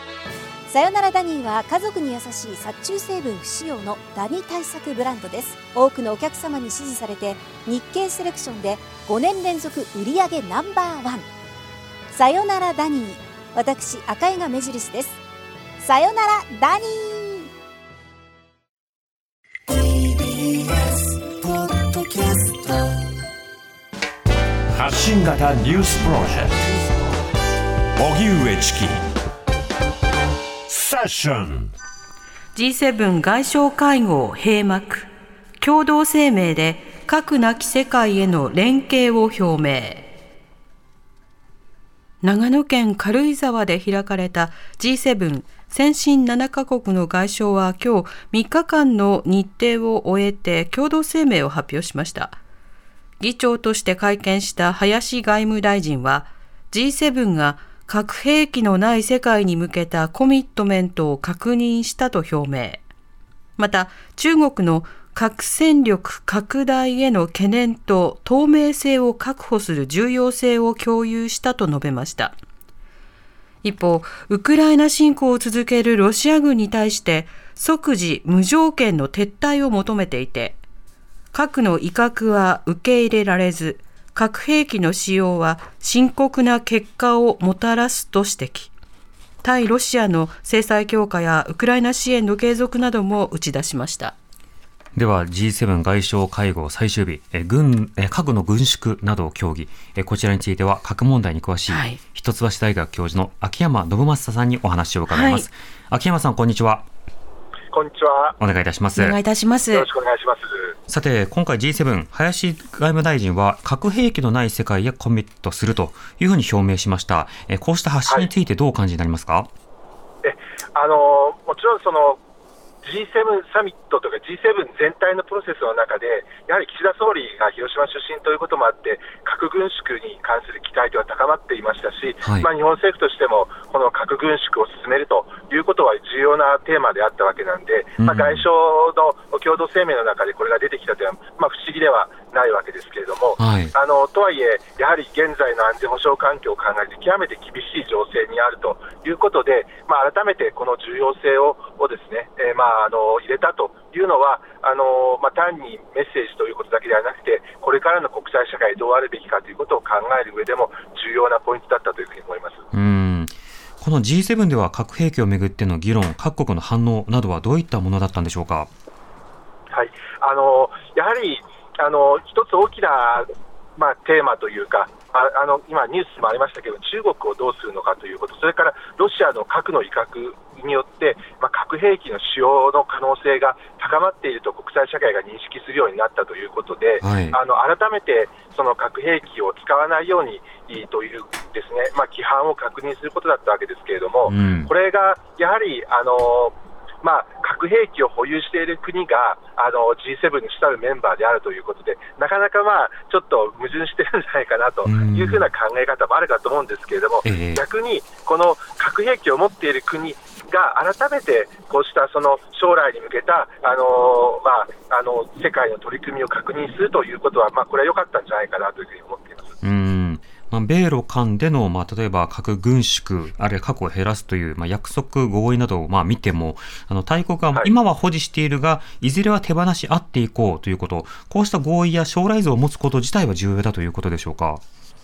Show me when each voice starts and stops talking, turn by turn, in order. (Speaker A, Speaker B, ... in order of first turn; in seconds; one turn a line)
Speaker A: 0.7-11.3
Speaker A: 12.1-15.2
Speaker A: 15.8-17.5
Speaker B: 19.7-22.9
Speaker B: 24.7-26.8
Speaker B: 28.0-29.0
Speaker B: 30.7-31.7
Speaker C: 32.5-35.1
Speaker C: 35.6-40.0
Speaker C: 42.2-52.4
Speaker C: 53.2-62.8
Speaker C: 63.6-72.3
Speaker C: 73.6-80.6
Speaker C: 81.3-88.7
Speaker C: 89.4-94.1
Speaker D: 94.9-106.8
Speaker C: 101.7-102.0
Speaker C: 105.1-105.4
Speaker E: 107.7-108.4
Speaker D: 108.4-109.2
Speaker C: 108.9-109.9
Speaker E: 109.7-110.8
Speaker D: 110.9-119.5
Speaker E: 120.2-122.2
Speaker E: 122.8-162.6
Speaker D: 138.0-138.4
Speaker D: 143.4-143.7
Speaker D: 162.7-168.7
Speaker E: 169.7-219.6
Speaker D: 187.0-187.4
Speaker D: 194.2-194.7
Speaker D: 204.8-205.5
Speaker D: 207.2-207.6
Speaker D: 219.6-234.6